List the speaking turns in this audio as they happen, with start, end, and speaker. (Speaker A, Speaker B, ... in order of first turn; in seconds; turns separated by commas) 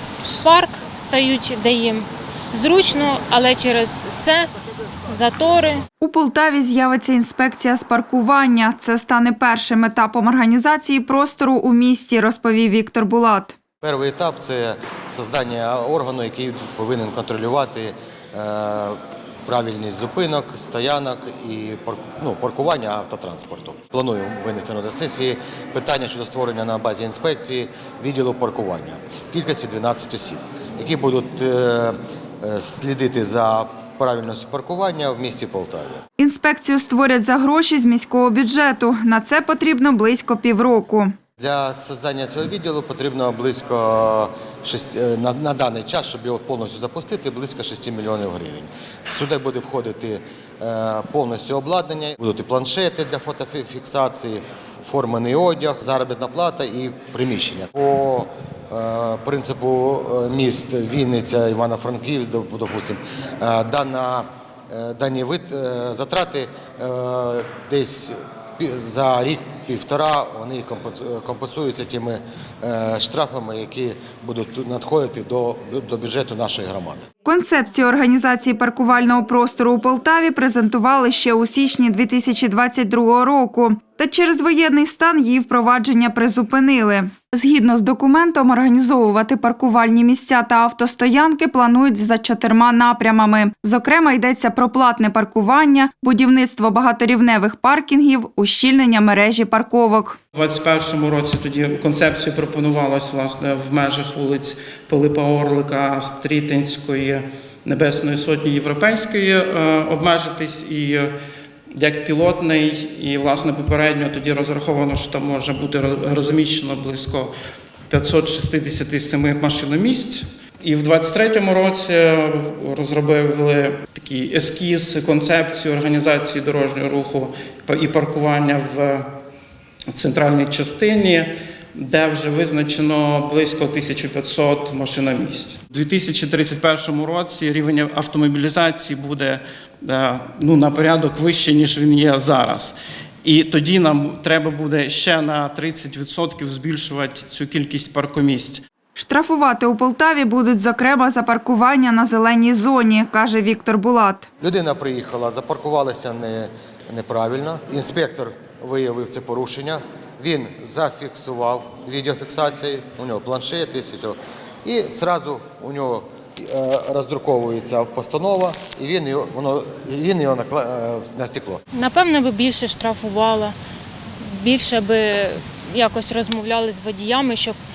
Speaker A: 0.2-4.5, Speaker A: 5.1-5.8, Speaker B: 6.0-13.5, Speaker C: 13.8-36.0, Speaker B: 36.2-41.1, Speaker C: 41.4-77.0, Speaker B: 77.2-100.2, Speaker D: 100.3-111.1, Speaker D: 111.7-117.3, Speaker D: 117.9-129.1, Speaker D: 129.9-148.6, Speaker B: 148.9-154.3, Speaker C: 154.4-171.6, Speaker A: 171.7-173.5, Speaker A: 174.2-177.6